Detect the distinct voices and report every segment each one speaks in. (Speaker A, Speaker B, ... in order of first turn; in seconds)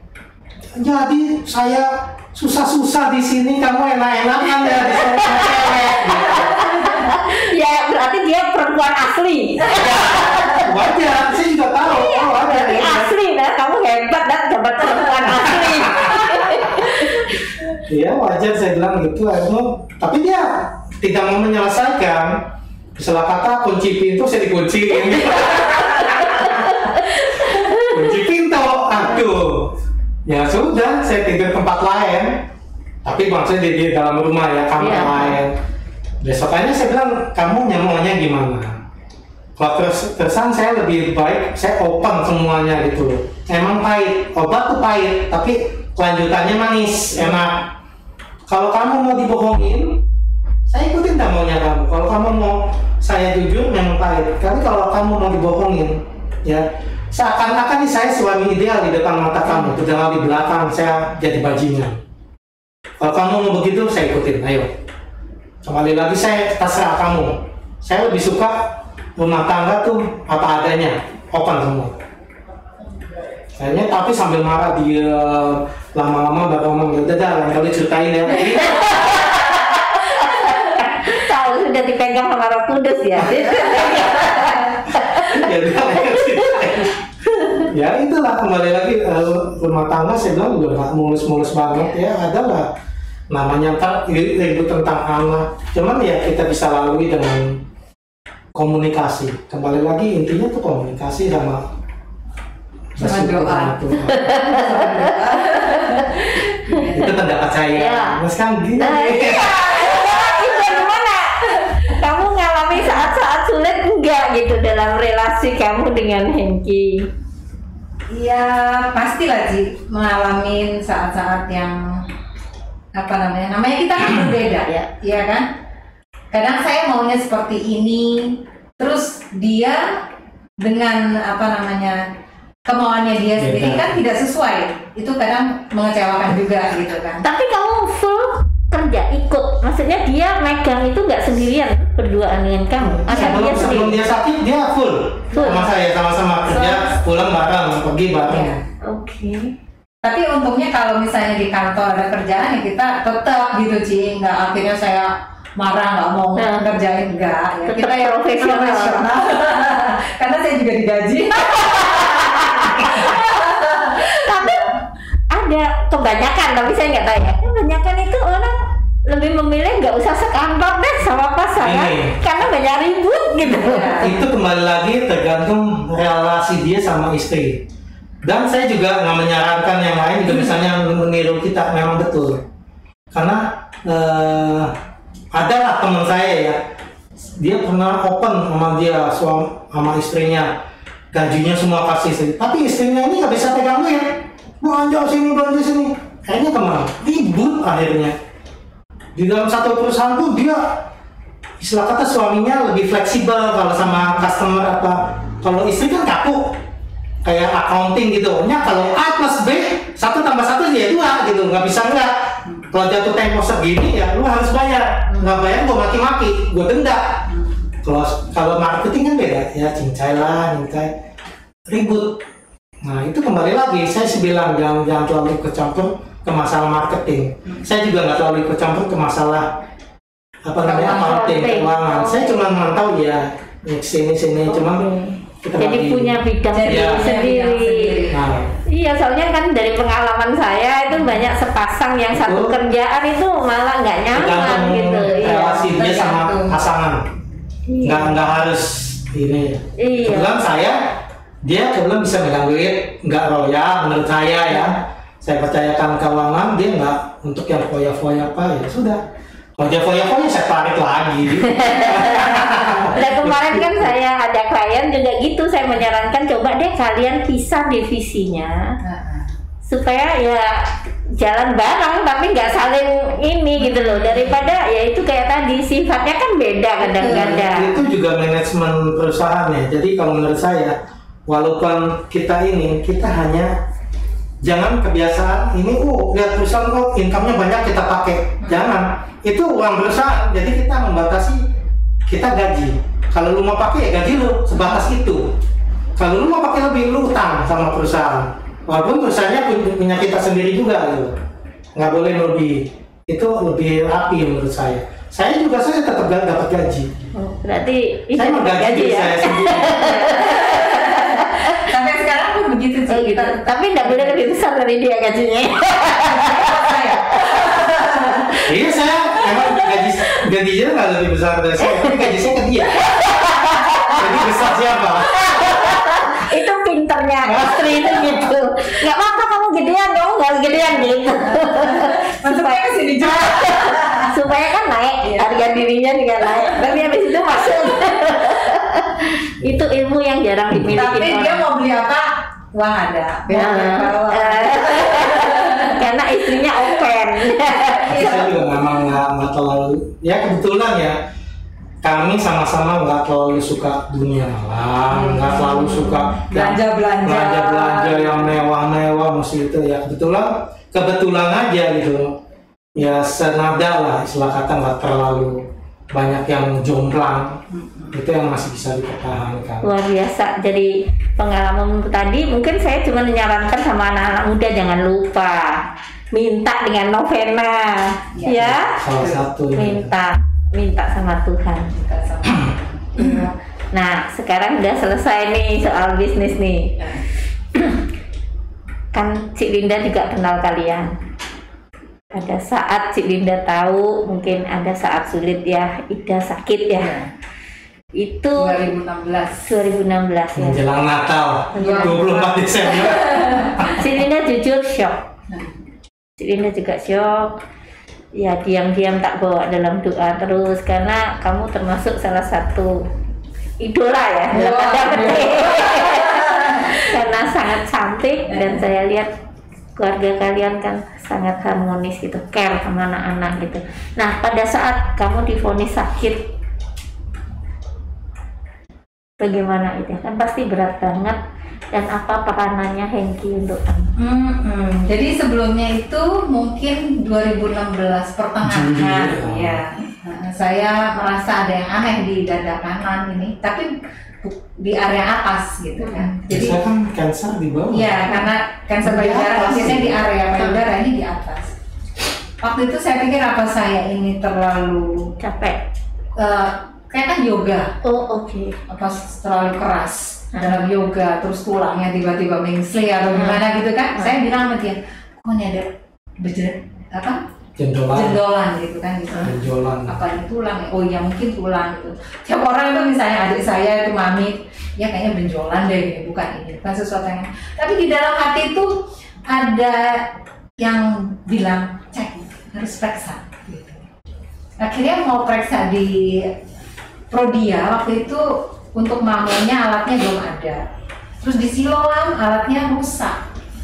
Speaker A: 0.7-6.9, 9.6-13.1, 15.2-16.8, 17.8-22.4, 22.9-32.4, 33.0-35.6, 36.2-38.8, 39.5-47.7, 48.5-50.0, 50.7-62.0, 63.0-64.7, 65.6-72.0, 73.5-79.2, 85.0-87.0, 87.6-92.7, 93.3-97.6, 98.5-101.7, 102.9-104.4, 106.9-109.7, 133.4-134.0, 143.1-148.6, 171.5-172.2, 174.0-177.6, 178.2-182.4, 183.1-184.7, 185.3-186.6, 187.2-190.6, 191.1-198.1, 199.1-200.9, 201.6-206.6, 207.2-217.2, 217.8-220.9, 221.7-222.2, 222.8-229.5, 230.4-234.9, 235.4-237.1, 238.1-238.5, 242.1-242.5, 244.1-247.1, 247.8-259.0, 259.6-263.9, 277.0-283.5, 284.4-291.4, 292.1-295.4, 295.9-301.2, 301.7-306.9, 308.1-310.1, 318.4-322.8, 324.0-326.0, 327.2-328.2, 339.4-339.6, 340.5-340.9, 347.9-351.0, 351.8-362.1, 362.7-367.4, 367.9-369.7, 378.8-380.0, 400.4-403.8, 438.4-439.6, 446.3-448.1, 448.8-450.0, 467.6-468.2, 469.2-470.0
Speaker B: 4.6-10.8, 11.8-17.7, 25.4-28.0, 34.8-35.4, 78.5-85.3, 86.0-86.7, 104.1-106.2, 107.7-108.2, 108.8-117.1, 137.2-144.0, 145.3-145.6, 148.8-149.5, 156.4-156.7, 157.7-159.3, 161.4-164.7, 165.3-174.1, 230.8-232.4, 234.5-238.0, 238.7-245.7, 247.7-248.2, 249.8-250.3, 261.4-268.7, 269.6-277.7, 307.1-311.7, 312.9-318.4, 319.2-319.9, 321.6-324.3, 325.1-341.4, 343.3-348.4, 369.6-378.8, 379.5-381.7, 383.0-386.8, 387.5-387.8, 388.9-390.9, 392.1-397.0, 397.9-398.6, 399.4-400.6, 401.5-402.0, 402.7-405.0, 406.2-407.4, 408.1-412.8, 413.6-419.1, 419.8-426.2, 429.2-431.2, 431.7-433.9, 445.8-446.1, 450.4-450.6, 455.2-455.6, 457.8-458.6, 460.3-460.6, 463.1-463.4
Speaker C: 103.0-107.2, 109.4-110.8, 118.1-122.1, 122.9-125.5, 126.3-130.0, 130.6-132.1, 132.6-137.2, 142.8-143.8, 145.3-145.7, 146.5-146.9, 148.3-148.6, 150.0-164.8, 173.4-174.1, 215.1-215.3, 217.3-217.6, 230.6-231.4, 236.5-238.6, 240.9-241.3, 245.2-246.7, 268.8-269.3, 273.6-274.5, 276.8-277.7, 288.4-288.7, 309.7-314.4, 315.9-318.3, 323.5-324.0, 330.7-334.1, 335.0-335.4, 336.3-337.8, 340.6-348.5, 354.9-358.4, 367.5-368.0, 378.1-379.2, 381.7-383.3, 386.8-387.0, 396.8-397.1, 398.4-399.5, 401.6-403.7, 405.3-405.6, 414.3-416.9, 418.3-418.6, 434.0-446.6, 447.7-451.5, 452.4-455.1, 456.2-457.8, 458.7-467.2, 467.9-483.9, 484.6-486.3, 487.1-490.6, 491.2-493.2